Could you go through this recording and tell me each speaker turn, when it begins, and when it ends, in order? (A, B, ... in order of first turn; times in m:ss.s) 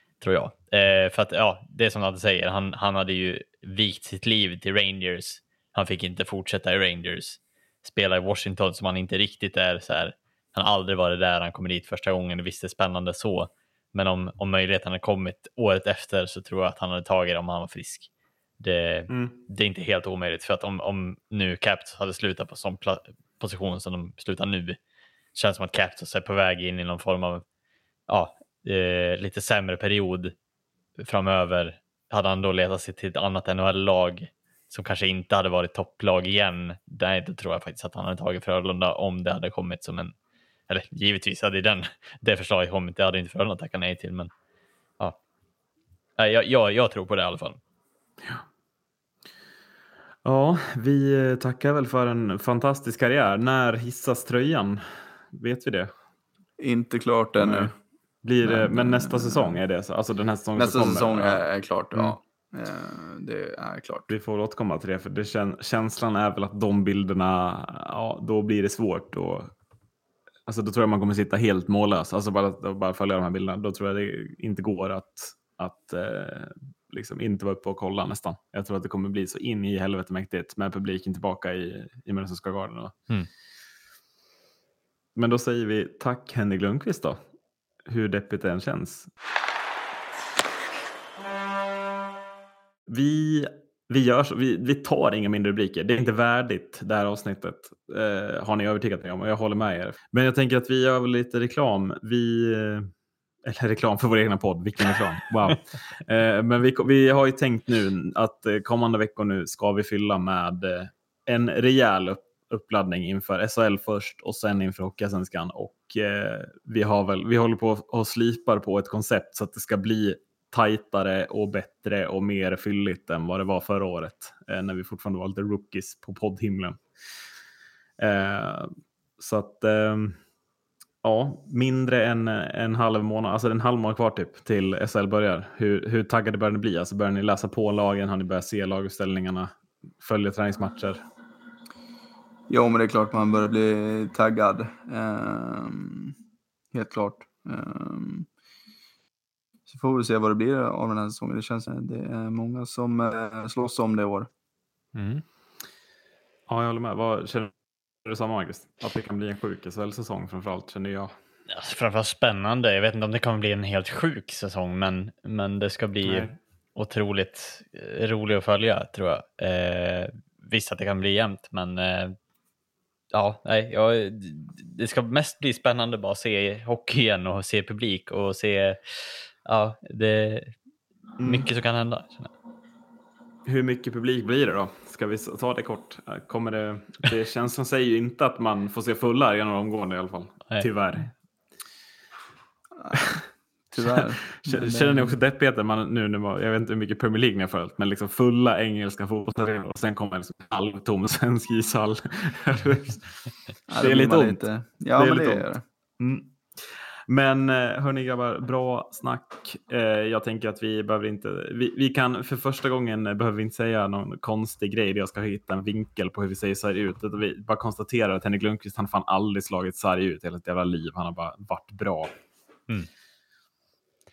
0:00.2-0:18.1 A
0:18.6-0:24.8 A
0:19.1-0:19.4 B
0:25.4-0:27.4 A
0:28.1-0:30.4 A
0:31.0-0:40.1 A
0:40.7-0:44.3 A
0:46.2-0:47.6 A
0:50.2-0:55.9 B
0:56.6-0:57.7 C
0:57.4-0:57.7 B
0:58.2-1:01.4 B
0:58.4-0:59.6 C
1:00.6-1:04.1 C
1:04.1-1:09.5 B
1:10.5-1:23.0 B
1:25.2-1:27.2 B
1:27.9-1:29.1 B
1:32.9-1:42.9 B
1:43.4-2:06.8 B
2:08.0-2:10.2 B
2:11.0-2:19.5 B
2:20.0-2:21.0 B
2:22.5-2:26.2 C
2:26.7-2:28.3 C
2:29.7-2:34.3 C
2:35.0-2:35.2 A
2:36.5-2:37.5 B
2:38.0-2:41.1 B
2:41.5-2:52.2 A
2:46.0-2:46.3 B
2:53.1-3:00.5 A
3:01.2-3:01.5 B
3:01.2-3:02.3 A
3:03.5-3:11.1 B
3:12.8-3:15.2 C
3:13.8-3:23.3 B
3:23.7-3:25.6 C
3:23.8-3:25.5 B
3:26.0-3:42.1 B